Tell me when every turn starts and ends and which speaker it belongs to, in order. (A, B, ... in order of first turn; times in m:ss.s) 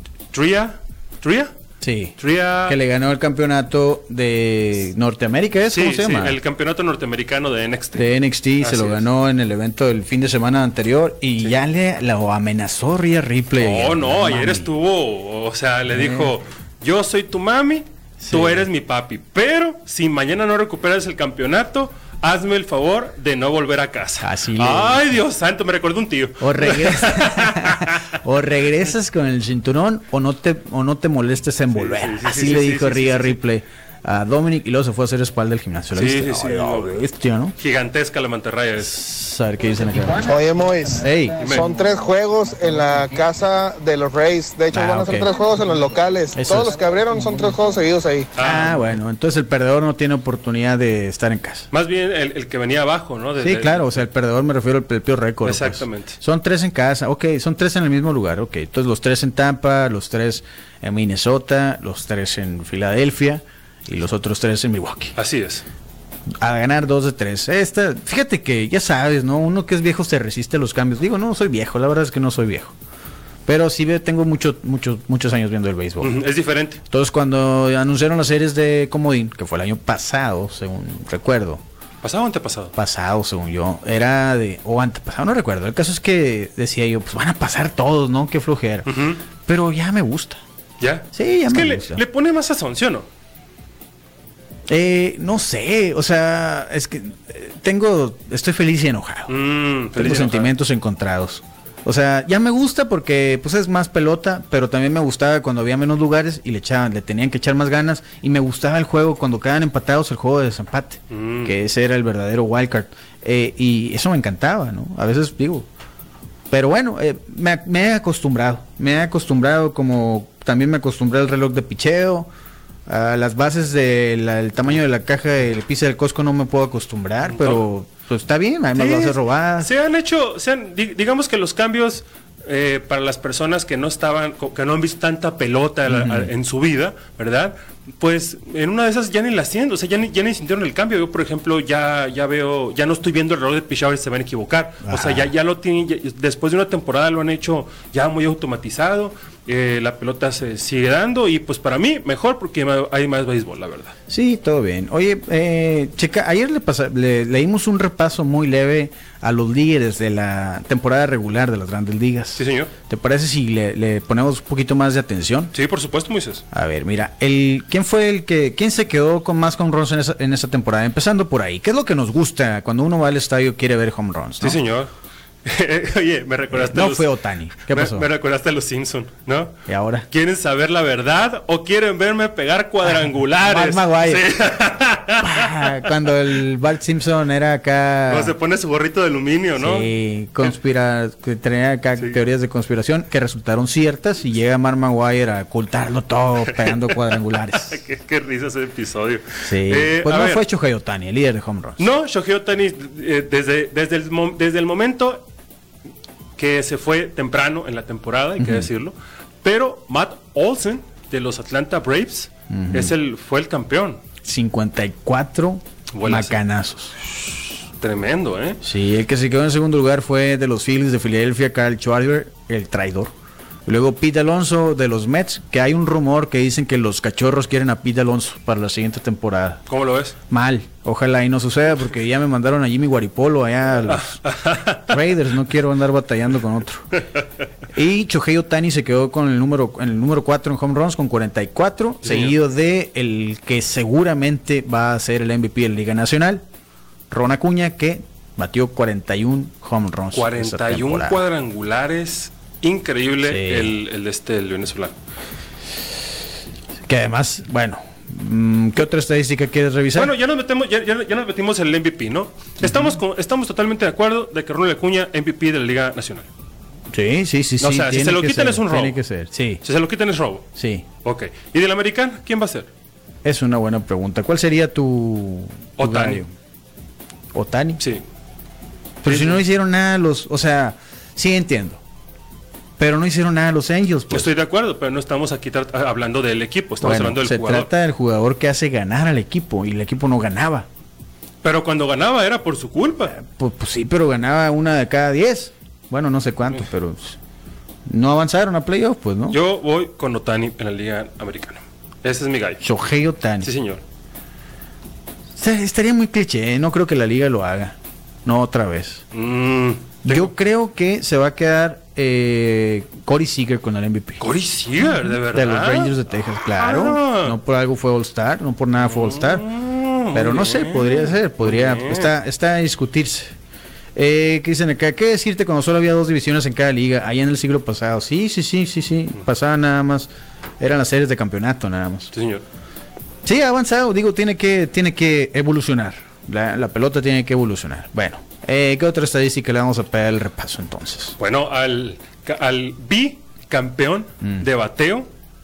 0:00.3-0:01.5 A
0:01.8-0:06.4 B
0:02.2-0:02.8 A
0:05.7-0:09.0 A
0:08.0-0:14.7 B
0:13.6-0:28.2 A
0:15.9-0:16.3 B
0:18.2-0:18.6 B
0:24.2-0:25.2 B
0:26.4-0:37.5 B
0:31.7-0:33.4 A
0:35.9-0:37.0 A
0:37.6-0:39.0 A
0:38.8-0:40.3 B
0:40.2-0:48.3 C
0:41.0-0:41.5 B
0:44.7-0:45.3 B
0:46.3-0:46.7 B
0:48.4-0:48.7 A
0:48.4-0:51.7 B
0:51.7-0:54.0 A
0:53.4-1:05.1 B
0:55.4-0:56.2 A
1:05.2-1:05.6 A
1:06.4-1:12.7 B
1:13.4-1:16.2 B
1:16.0-1:16.8 A
1:16.9-1:21.6 B
1:22.0-1:22.7 A
1:22.8-1:28.9 B
1:28.8-1:29.2 A
1:29.4-1:30.4 B
1:30.8-1:33.1 A
1:31.1-1:32.0 B
1:34.7-1:39.3 B
1:39.3-1:40.5 A
1:40.0-1:55.7 B
1:51.1-1:51.6 A
1:56.5-2:02.3 B
2:02.9-2:09.7 B
2:07.3-2:07.6 A
2:08.7-2:33.9 A
2:15.9-2:16.3 B
2:24.8-2:25.3 B
2:34.1-2:45.5 B
2:42.4-2:42.7 A
2:45.5-2:46.4 A
2:46.5-2:54.6 B
2:54.4-2:54.9 A
2:55.4-2:57.1 A
2:56.5-2:58.1 B
2:57.6-3:05.9 A
2:59.7-3:00.1 B
3:03.4-3:04.3 B
3:05.2-3:08.3 B
3:08.1-3:09.9 A
3:09.6-3:17.8 B
3:16.5-3:20.4 A
3:19.4-3:21.8 B
3:21.8-3:25.2 A
3:26.4-3:34.0 A
3:28.4-3:28.7 B
3:32.5-3:32.9 B
3:34.2-3:36.9 B
3:35.9-3:36.4 A
3:37.2-3:38.6 A
3:38.6-3:43.1 B
3:43.6-3:49.6 B
3:49.7-3:50.2 A
3:50.3-3:54.2 B
3:53.9-3:54.9 A
3:54.8-3:57.0 B
3:57.7-4:06.4 B
4:02.0-4:02.3 A
4:07.1-4:11.2 B
4:10.1-4:14.9 A
4:13.2-4:13.7 B
4:16.8-4:20.1 B
4:19.9-4:26.3 A
4:22.6-4:23.0 B
4:26.9-4:29.6 B
4:27.6-4:29.0 A
4:29.6-4:30.4 A
4:30.6-4:30.8 B
4:31.0-4:32.7 A
4:33.2-4:36.3 B
4:35.8-4:36.2 A
4:37.3-4:37.8 B
4:37.8-4:38.0 A
4:39.0-4:41.8 B
4:39.0-4:39.4 A
4:42.8-4:44.3 B
4:44.1-4:47.7 A
4:46.8-4:50.7 B
4:51.4-4:53.1 A
4:53.1-4:57.2 B
4:57.9-4:59.4 B
4:59.3-5:02.6 A
5:02.6-5:03.5 B
5:03.4-5:03.8 A
5:05.4-5:09.0 B
5:09.1-5:10.3 A
5:10.0-5:14.2 B
5:14.2-5:17.4 A
5:14.8-5:19.4 B
5:18.8-5:22.1 A
5:20.1-5:23.3 B
5:23.9-5:30.1 B
5:30.6-5:32.1 B
5:32.1-5:32.4 A
5:33.2-5:41.2 B
5:41.2-5:45.1 A